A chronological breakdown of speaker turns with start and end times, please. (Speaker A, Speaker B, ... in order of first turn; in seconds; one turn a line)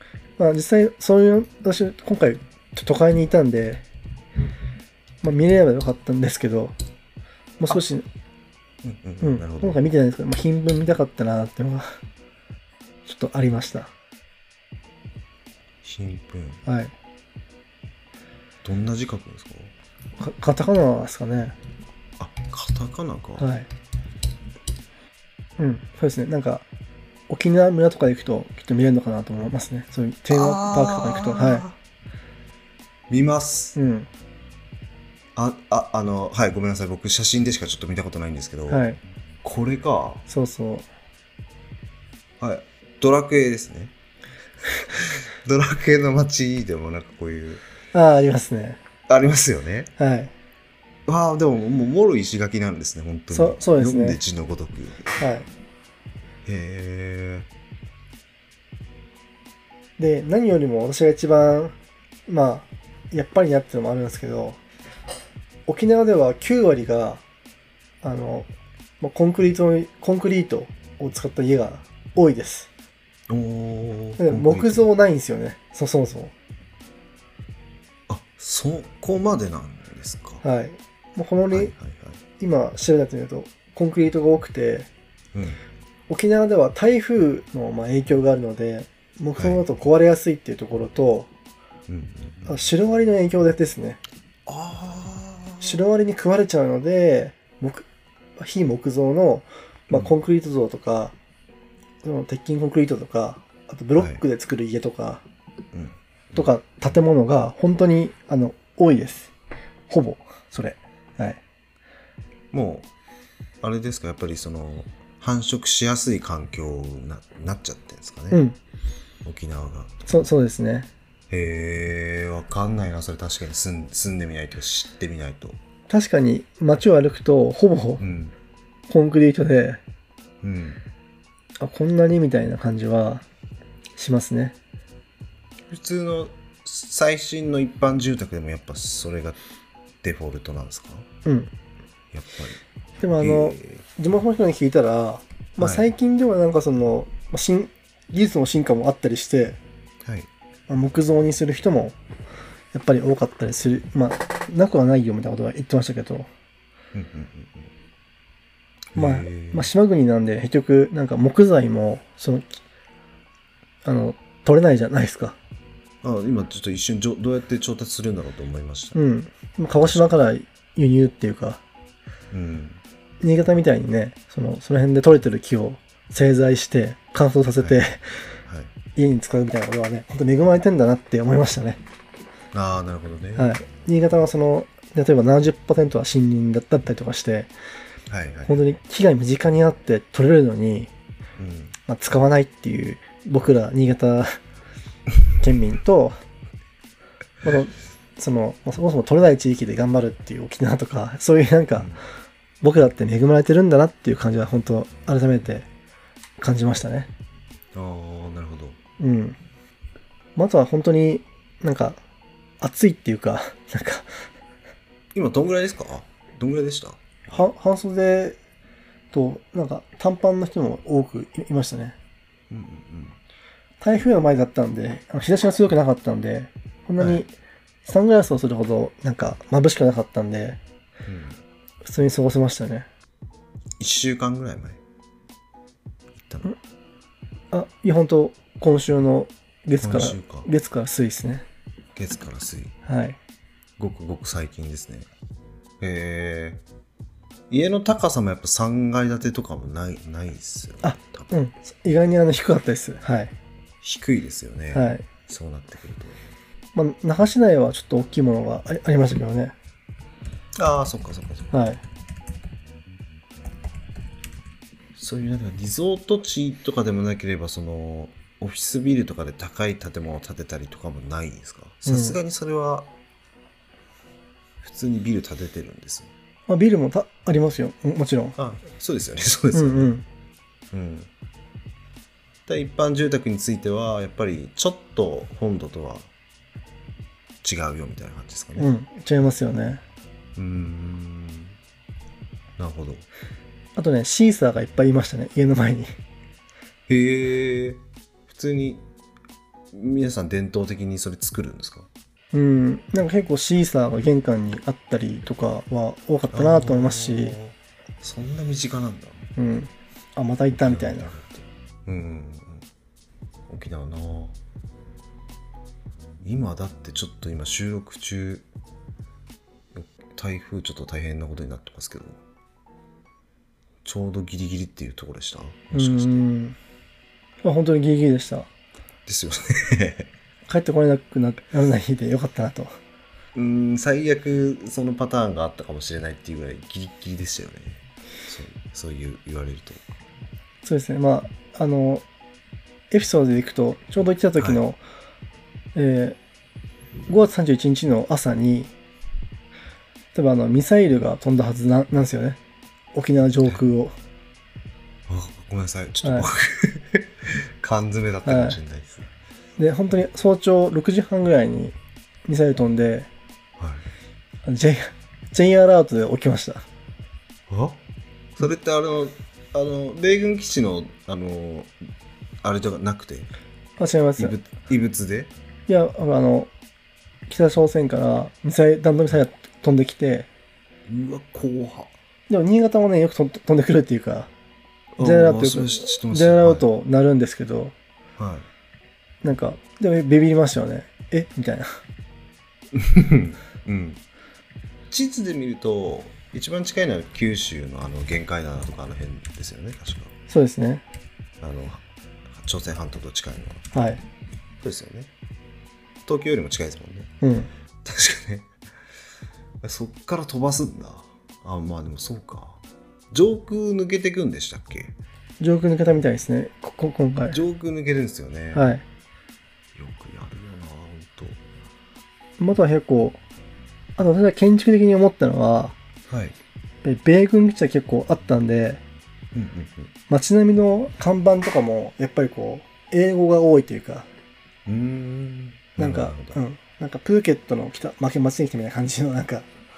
Speaker A: 0.4-3.8
Speaker A: 5.2-6.7
Speaker A: 7.6-8.1
Speaker B: 8.8-9.8
Speaker A: 9.2-12.0
Speaker A: 13.0-13.9
Speaker B: 15.8-16.6
Speaker A: 16.6-16.9
Speaker B: 18.6-19.7
Speaker A: 20.2-21.6
Speaker B: 22.2-23.4
Speaker A: 23.4-23.7
Speaker A: 25.6-26.6
Speaker A: 27.3-31.7
Speaker B: 30.3-31.8
Speaker B: 33.1-33.8
Speaker A: 33.7-34.1
Speaker B: 35.4-38.8
Speaker A: 38.7-39.0
Speaker B: 39.4-40.2
Speaker A: 40.3-40.9
Speaker B: 42.4-43.9
Speaker B: 44.6-47.6
Speaker A: 47.9-48.8
Speaker B: 49.1-49.9
Speaker A: 50.0-50.3
Speaker B: 51.1-55.1
Speaker A: 53.3-54.2
Speaker A: 55.2-55.5
Speaker B: 56.4-57.5
Speaker A: 60.0-61.7
Speaker A: 62.3-64.6
Speaker A: 65.7-67.2
Speaker A: 68.0-68.5
Speaker A: 69.0-72.7
Speaker B: 73.3-74.8
Speaker A: 74.2-76.3
Speaker B: 78.1-80.4
Speaker A: 80.4-81.7
Speaker B: 81.5-82.2
Speaker A: 82.4-84.9
Speaker B: 85.3-85.6
Speaker A: 86.1-91.3
Speaker B: 89.4-89.6
Speaker B: 91.9-92.5
Speaker A: 92.5-94.0
Speaker B: 94.5-95.8
Speaker A: 95.6-97.9
Speaker A: 98.4-101.1
Speaker A: 102.0-105.2
Speaker B: 104.0-104.2
Speaker B: 105.7-106.5
Speaker A: 106.3-109.3
Speaker A: 109.9-111.4
Speaker B: 112.5-112.9
Speaker B: 113.6-118.4
Speaker A: 118.3-118.6
Speaker B: 119.2-120.2
Speaker A: 120.1-120.9
Speaker B: 121.3-125.6
Speaker A: 125.9-128.0
Speaker B: 128.0-128.3
Speaker A: 128.9-129.8
Speaker B: 130.4-130.8
Speaker A: 131.6-133.2
Speaker A: 134.0-134.5
Speaker B: 135.7-139.4
Speaker B: 140.0-141.1
Speaker A: 141.2-141.5
Speaker B: 142.1-142.6
Speaker A: 143.0-149.6
Speaker B: 143.1-143.8
Speaker B: 145.6-145.9
Speaker B: 150.0-150.3
Speaker A: 150.7-151.9
Speaker A: 152.7-156.3
Speaker B: 156.9-157.7
Speaker B: 158.9-159.7
Speaker A: 158.9-162.6
Speaker A: 163.8-165.4
Speaker B: 166.0-169.0
Speaker A: 168.9-171.6
Speaker B: 169.7-170.1
Speaker B: 172.3-172.8
Speaker A: 173.2-178.0
Speaker A: 178.9-181.8
Speaker B: 182.5-183.6
Speaker A: 183.4-187.5
Speaker B: 188.1-188.6
Speaker A: 188.4-190.9
Speaker B: 191.4-191.8
Speaker A: 191.9-194.3
Speaker A: 195.4-196.1
Speaker A: 197.4-201.9
Speaker B: 201.7-202.0
Speaker A: 202.6-205.7
Speaker A: 206.4-207.1
Speaker B: 207.7-208.8
Speaker A: 209.0-209.4
Speaker A: 210.3-212.0
Speaker A: 212.6-214.2
Speaker B: 215.1-217.4
Speaker A: 217.3-218.4
Speaker A: 219.1-221.9
Speaker B: 222.5-223.2
Speaker A: 223.8-227.3
Speaker A: 227.8-230.6
Speaker B: 231.1-231.4
Speaker A: 231.8-232.9
Speaker B: 233.8-234.8
Speaker B: 236.2-236.5
Speaker A: 237.5-241.4
Speaker B: 239.8-240.5
Speaker B: 241.9-242.7
Speaker A: 242.8-243.2
Speaker B: 243.8-245.1
Speaker B: 245.8-246.6
Speaker B: 247.5-251.3
Speaker A: 250.8-253.3
Speaker B: 253.8-256.2
Speaker A: 254.7-255.0
Speaker A: 256.7-259.5
Speaker B: 260.6-261.5
Speaker A: 261.5-261.8
Speaker B: 264.9-272.9
Speaker A: 271.8-272.2
Speaker B: 274.6-276.1
Speaker A: 276.5-278.4
Speaker B: 278.4-279.9
Speaker A: 279.5-280.0
Speaker B: 280.7-281.1
Speaker B: 282.5-286.1
Speaker B: 287.4-288.7
Speaker A: 288.6-289.8
Speaker B: 290.4-291.6
Speaker B: 292.6-293.1
Speaker A: 293.8-295.9
Speaker B: 296.9-298.8
Speaker B: 299.7-301.9
Speaker A: 302.3-307.4
Speaker B: 306.3-309.2
Speaker A: 309.4-311.1
Speaker B: 310.5-312.7
Speaker B: 313.5-314.4
Speaker B: 316.2-318.4
Speaker B: 319.7-322.2
Speaker B: 323.8-326.2
Speaker A: 325.7-326.6
Speaker A: 327.4-328.5
Speaker B: 329.1-330.1
Speaker A: 330.5-332.7
Speaker B: 333.3-339.8
Speaker A: 340.6-342.0
Speaker A: 342.9-344.8
Speaker A: 345.7-346.2
Speaker A: 347.1-348.7
Speaker A: 350.1-352.4
Speaker A: 352.9-353.9
Speaker B: 355.1-359.1
Speaker A: 356.0-356.3
Speaker A: 358.2-358.6
Speaker A: 359.6-361.7
Speaker A: 362.3-363.1
Speaker B: 363.6-363.9
Speaker A: 364.4-366.6
Speaker B: 367.5-367.8
Speaker B: 368.4-371.7
Speaker B: 372.4-373.3
Speaker A: 373.8-374.3
Speaker B: 374.2-375.3
Speaker A: 375.7-376.5
Speaker A: 377.3-380.3
Speaker B: 380.9-381.9
Speaker A: 382.3-384.3
Speaker B: 384.9-386.6
Speaker A: 385.0-387.7
Speaker B: 388.2-388.5
Speaker A: 389.2-391.7
Speaker B: 392.7-394.0
Speaker B: 394.9-400.1
Speaker A: 400.3-400.8
Speaker B: 401.4-401.8
Speaker B: 402.3-403.7
Speaker A: 403.7-404.0
Speaker B: 404.6-405.1
Speaker B: 406.0-407.1
Speaker A: 407.2-407.5
Speaker B: 407.8-408.5
Speaker B: 409.6-415.0
Speaker A: 415.4-417.4
Speaker B: 417.3-418.7
Speaker A: 418.5-418.8
Speaker B: 419.7-421.4
Speaker A: 422.4-423.2
Speaker A: 424.0-425.7
Speaker B: 426.1-426.4
Speaker A: 426.8-428.8
Speaker B: 429.3-429.9
Speaker A: 430.1-434.1
Speaker B: 434.6-436.4
Speaker A: 435.8-439.5